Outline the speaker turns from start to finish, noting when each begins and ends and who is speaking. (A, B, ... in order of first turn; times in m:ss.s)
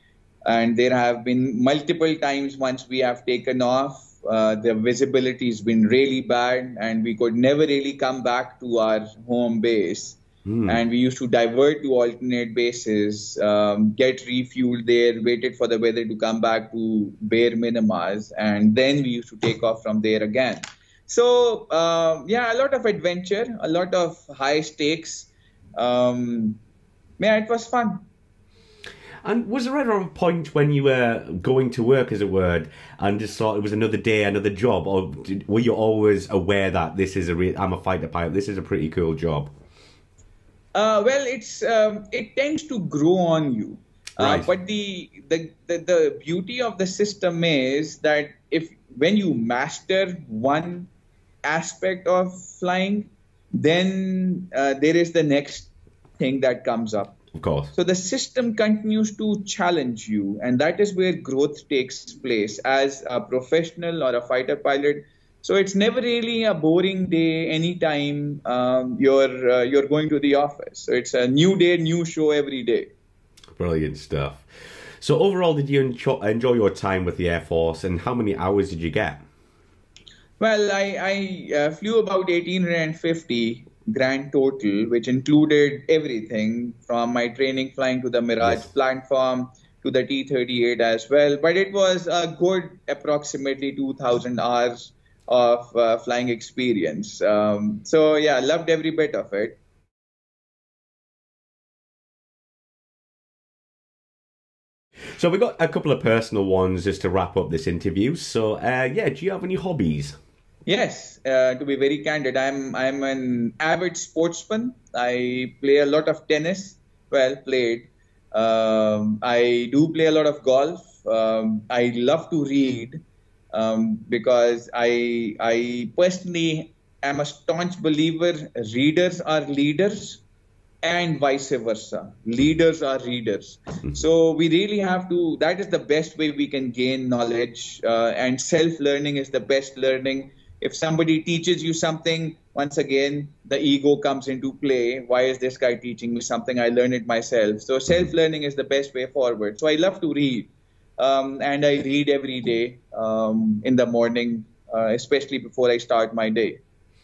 0:00.4-0:26.6 A
0:10.4-0:10.8 B
0:27.2-0:28.0 A
0:29.2-0:39.5 B
0:40.7-0:50.9 A
0:44.2-0:44.5 B
0:51.4-0:57.2 A
0:57.3-0:57.7 B
0:57.7-1:12.9 A
1:13.6-1:14.4 B
1:15.0-1:19.2 B
1:20.4-1:39.6 A
1:45.1-1:50.1 B
1:50.6-2:03.0 A
2:03.5-2:10.2 A
2:10.8-2:36.6 A